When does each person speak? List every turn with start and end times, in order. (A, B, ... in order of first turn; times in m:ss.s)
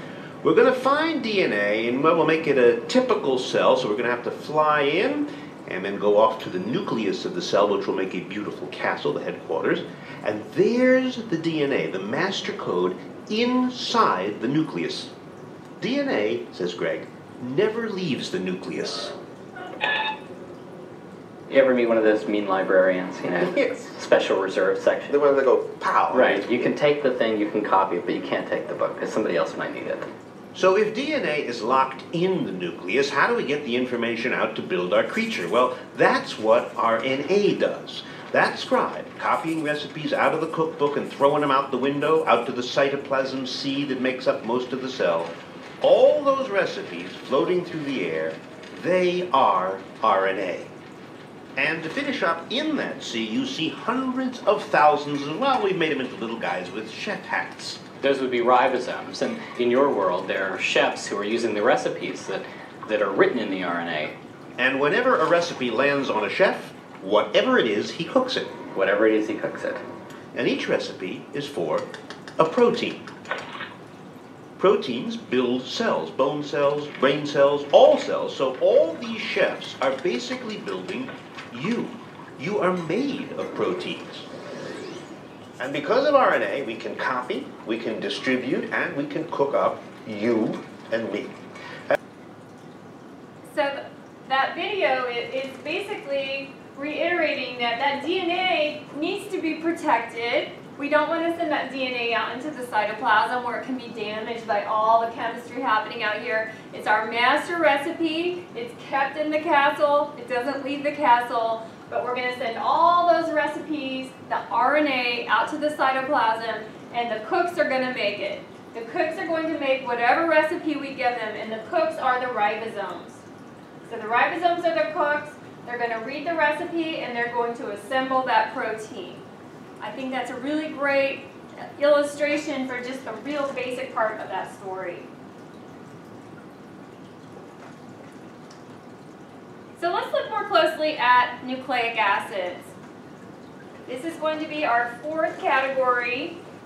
0:00.4-0:15.1 A
0:15.8-0:19.1 A
0:21.5-0:25.3 B
0:25.1-0:26.5 A
0:26.1-0:30.1 B
0:30.5-0:50.7 A
0:51.6-0:57.8 A
0:58.0-1:04.2 B
1:04.6-1:08.5 A
1:08.7-1:09.8 B
1:10.3-1:11.9 A
1:12.4-1:13.0 A
1:14.6-1:24.3 A
1:25.6-1:31.3 A
1:33.4-2:03.2 C
2:03.8-2:09.2 C
2:09.8-2:15.1 C
2:19.8-2:22.7 C
2:23.9-2:26.4 C